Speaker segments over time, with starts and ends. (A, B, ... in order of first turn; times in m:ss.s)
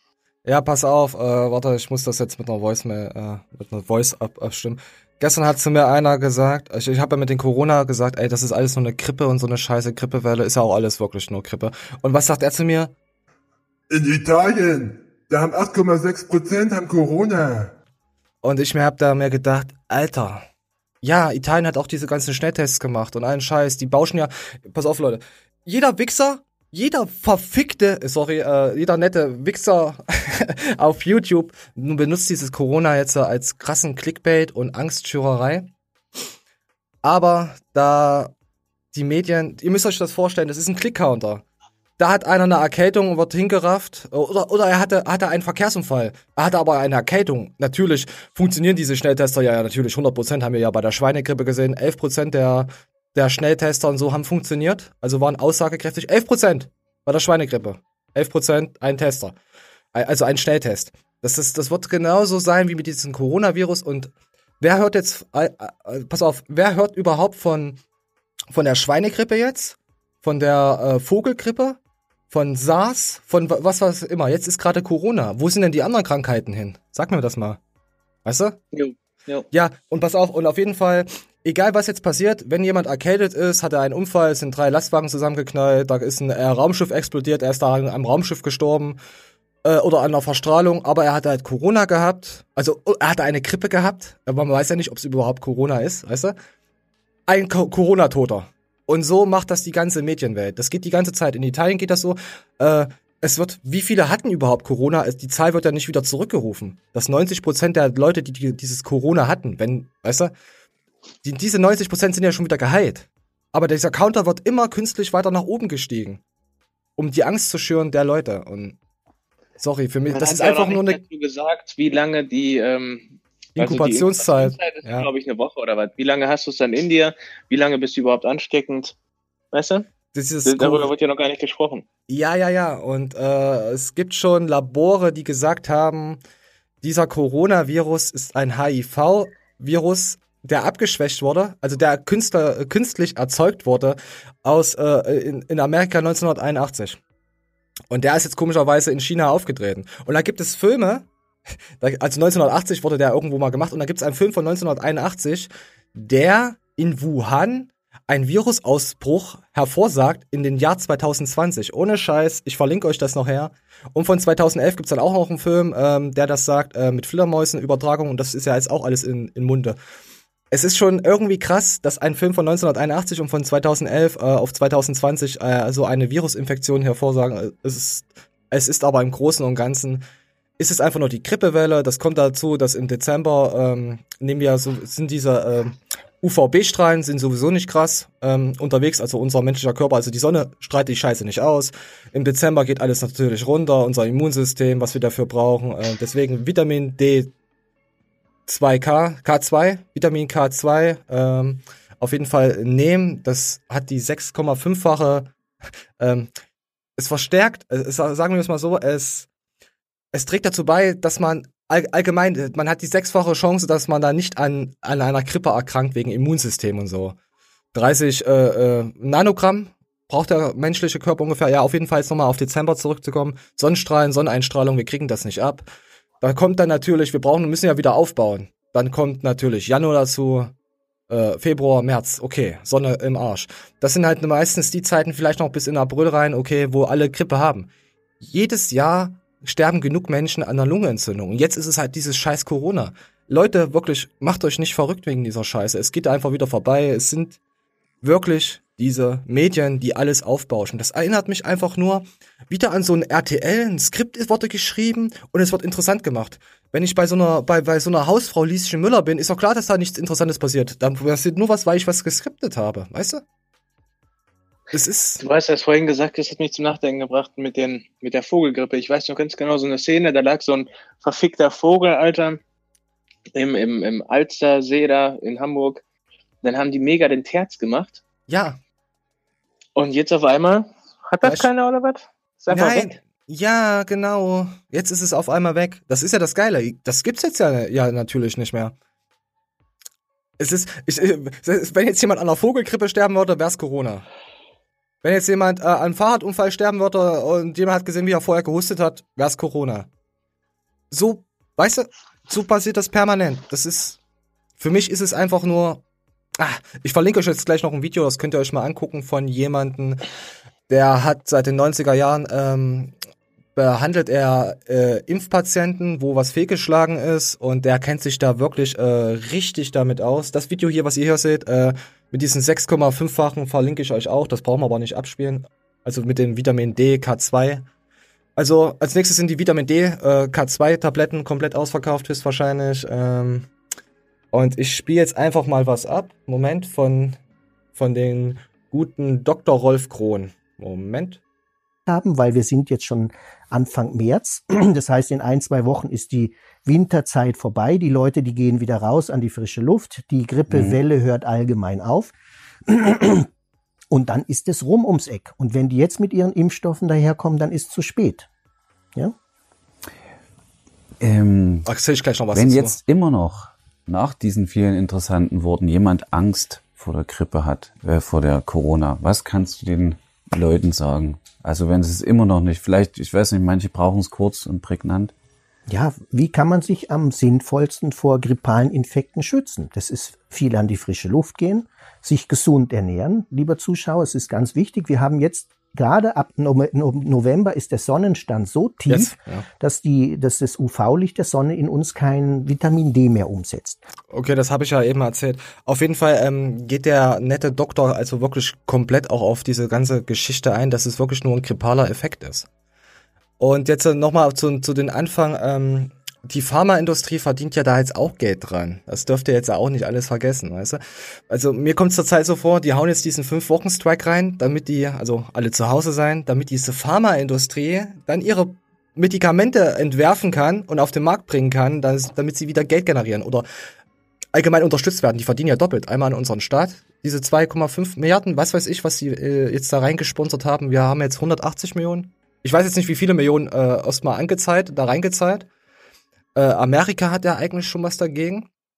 0:00.4-0:12.9 A
0:13.9-0:17.7 B
0:18.4-0:20.5 A
0:21.0-0:35.7 A
0:37.0-0:38.3 A
0:38.9-0:41.4 A
0:42.0-0:59.4 A
0:59.9-1:07.8 A
1:08.5-1:11.8 A
1:12.3-1:17.6 A
1:18.2-1:18.6 A
1:18.7-1:19.5 C
1:19.5-1:29.0 A
1:29.6-1:36.4 A
1:37.3-1:50.3 A
1:51.2-1:56.2 A
1:57.0-1:58.8 A
1:59.6-2:01.0 A
2:00.1-2:09.0 C
2:03.6-2:05.1 A
2:09.5-2:09.9 C
2:10.1-2:10.9 A
2:10.5-2:11.8 C
2:12.1-2:16.2 A
2:16.8-2:27.0 A
2:27.9-2:31.1 A
2:31.8-2:49.8 A
2:50.5-3:00.0 A
3:00.6-3:17.3 A
3:18.5-3:25.3 A
3:26.0-3:26.3 A
3:27.0-3:29.3 A
3:30.1-3:37.2 A
3:37.7-3:45.7 A
3:46.2-3:50.5 A
3:51.1-4:07.4 A
4:08.0-4:23.2 A
4:24.7-4:25.2 A
4:25.2-4:32.4 C
4:33.4-4:35.8 C
4:36.4-4:38.0 C
4:38.3-4:38.6 A
4:39.8-4:43.0 C
4:41.2-4:41.5 A
4:42.5-4:48.7 A
4:50.4-4:54.0 A
4:55.0-4:59.9 A
5:00.9-5:04.0 A
5:04.6-5:05.8 A
5:06.4-5:10.0 A
5:10.7-5:13.0 A
5:13.6-5:27.7 A
5:28.4-5:33.5 A
5:34.3-5:37.2 A
5:37.8-5:41.2 A
5:41.9-5:52.1 D
5:50.5-5:50.8 E
5:52.7-5:53.3 D
5:53.9-5:58.3 D
6:01.0-6:01.7 E
6:01.7-6:02.8 A
6:02.3-6:15.1 E
6:15.7-6:33.8 D
6:28.9-6:29.4 A
6:34.1-6:42.5 A
6:43.4-7:03.5 A
7:04.3-7:15.5 A
7:16.3-7:18.5 A